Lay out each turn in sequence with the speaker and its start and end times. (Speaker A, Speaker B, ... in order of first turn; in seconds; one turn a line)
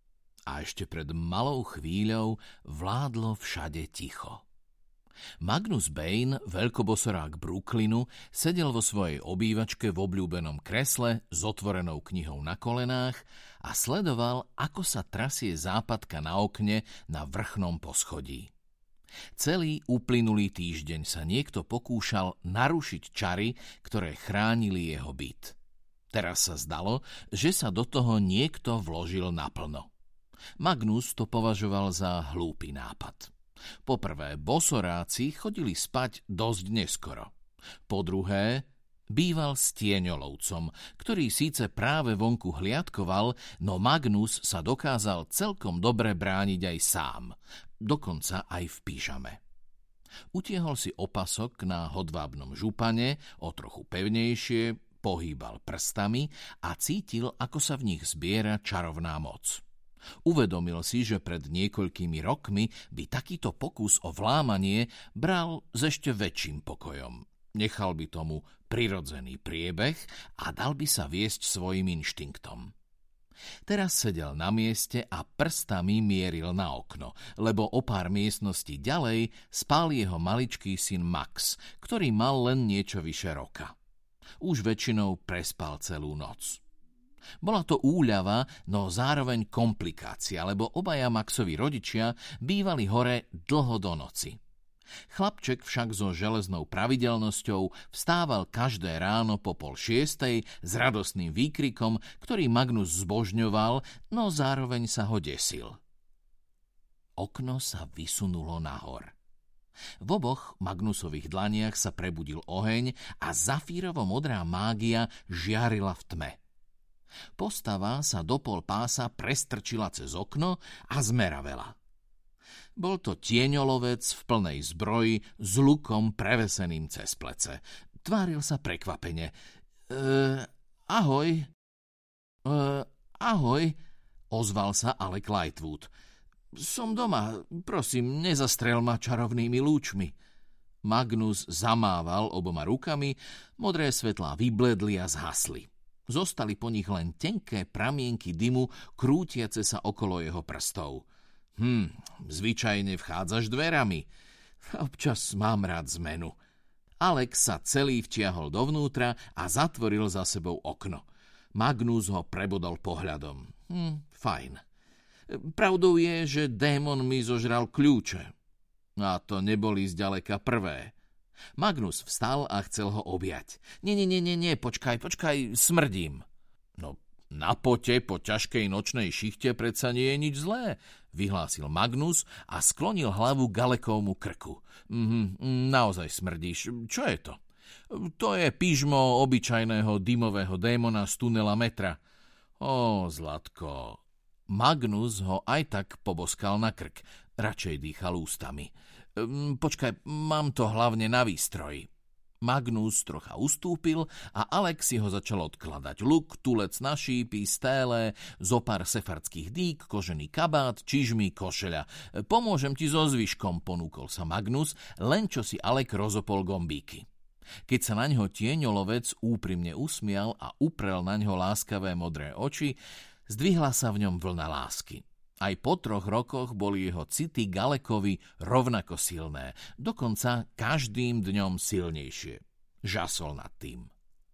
Speaker A: 0.5-4.4
Speaker A: 5.4-18.5
Speaker A: 19.3-25.6
Speaker A: 26.1-29.9
Speaker A: 30.6-33.3
Speaker A: 33.8-37.3
Speaker A: 37.9-49.4
Speaker A: 50.3-59.6
Speaker A: 60.2-72.7
Speaker A: 73.7-83.7
Speaker A: 84.4-86.6
Speaker A: 87.4-94.4
Speaker A: 95.1-105.8
Speaker A: 107.2-109.1
Speaker A: 110.0-116.4
Speaker A: 117.3-121.8
Speaker A: 122.8-129.3
Speaker A: 129.9-131.5
Speaker A: 132.4-133.8
Speaker A: 134.3-135.9
Speaker A: 136.5-140.1
Speaker A: 140.8-154.1
Speaker A: 154.6-156.4
Speaker A: 157.0-164.6
Speaker A: 165.3-168.3
Speaker A: 169.0-170.9
Speaker A: 171.6-176.2
Speaker A: 176.8-192.0
Speaker A: 192.6-201.9
Speaker A: 202.4-217.1
Speaker A: 217.7-233.9